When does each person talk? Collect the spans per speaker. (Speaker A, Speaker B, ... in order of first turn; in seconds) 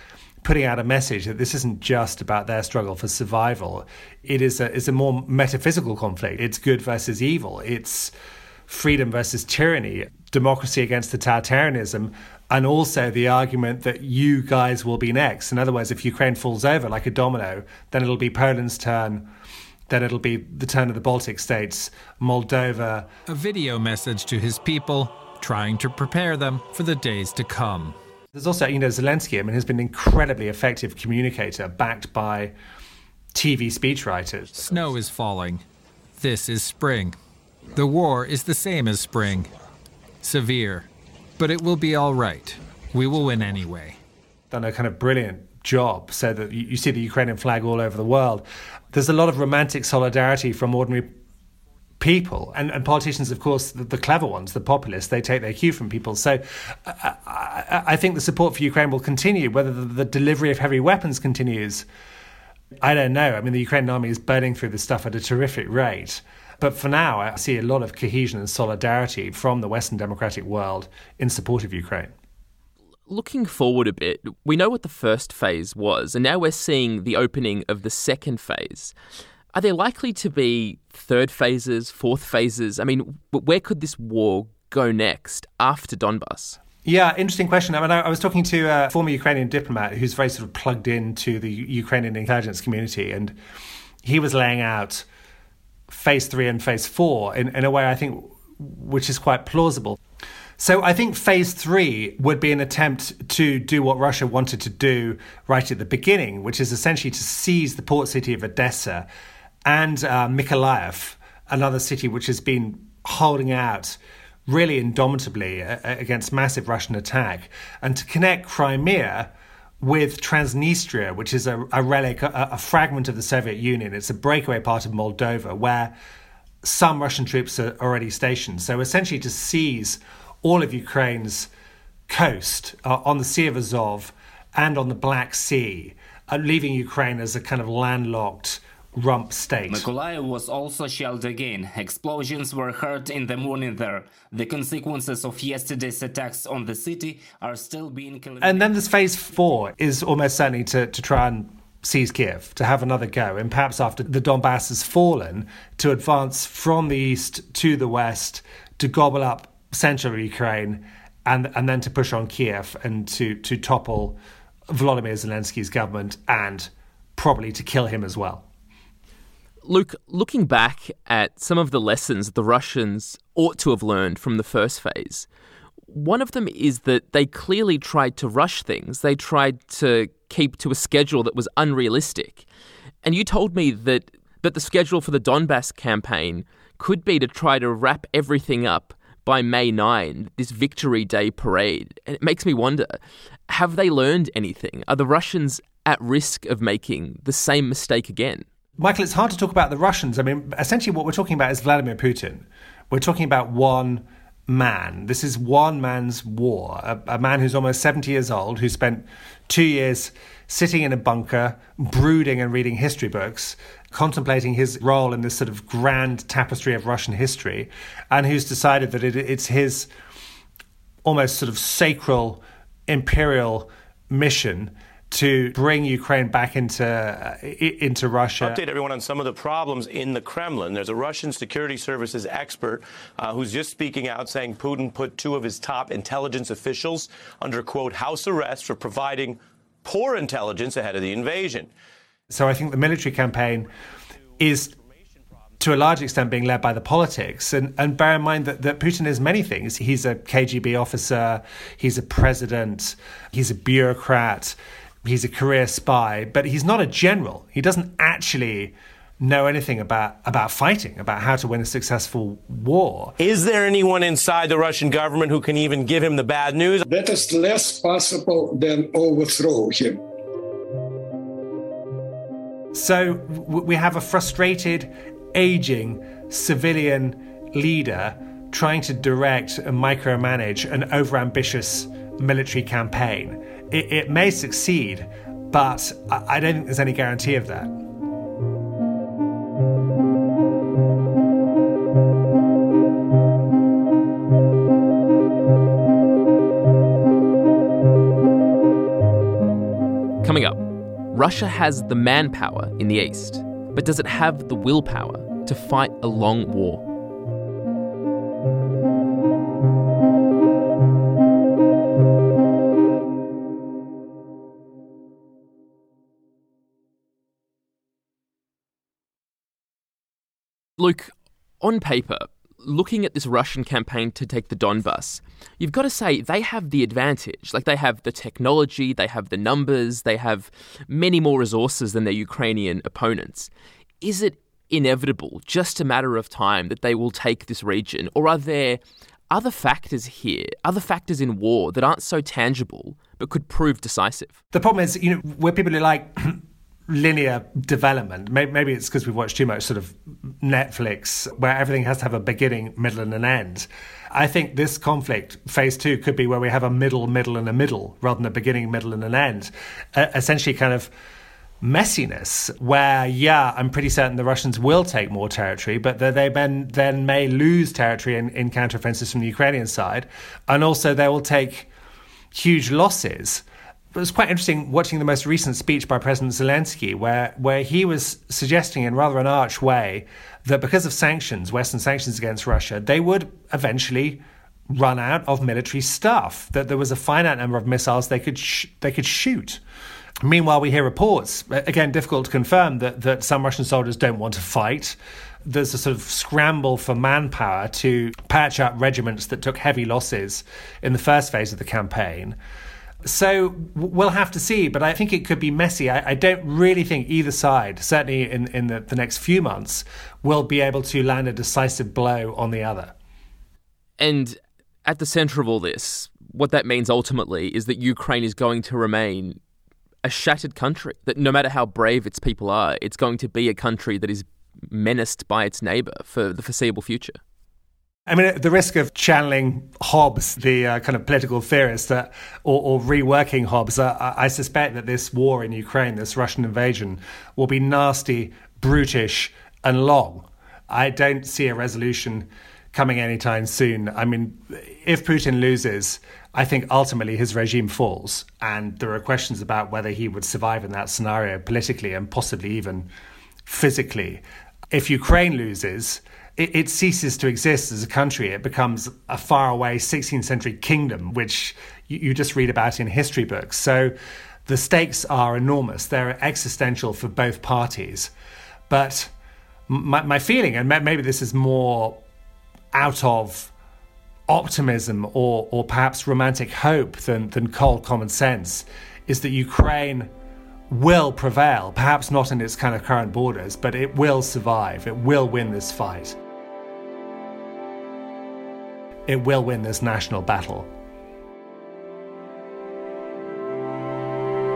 Speaker A: 0.4-8.1, 8.7-19.3, 19.9-23.1, 28.3-32.5, 33.3-34.9, 44.5-51.1, 52.0-61.9, 62.8-72.1, 86.8-93.4, 94.0-95.1, 95.9-100.0, 100.6-109.1, 109.7-125.9, 126.6-131.5, 132.1-139.9, 148.4-164.2, 164.7-168.5, 198.8-219.9, 221.0-228.6, 242.3-243.7, 244.4-244.8, 245.6-263.1, 272.7-287.7, 344.5-360.9, 361.6-371.7, 372.3-389.6, 390.2-402.4, 403.0-412.9, 428.1-452.9, 453.5-463.9, 464.5-468.1, 468.7-469.1, 469.7-472.0, 472.7-473.5, 474.3-480.1, 480.7-486.2, 489.1-490.7
Speaker B: 23.3-28.0, 34.6-35.6, 36.2-37.2, 37.8-39.5, 40.2-40.9, 41.4-44.0
Speaker C: 73.1-78.9, 79.5-86.6, 169.7-175.3, 175.9-182.4, 183.0-198.4, 300.2-306.9, 320.8-333.5, 334.0-344.4, 414.0-419.4, 420.0-427.2
Speaker D: 139.7-148.8
Speaker E: 228.4-241.7, 263.2-266.8
Speaker F: 266.9-270.0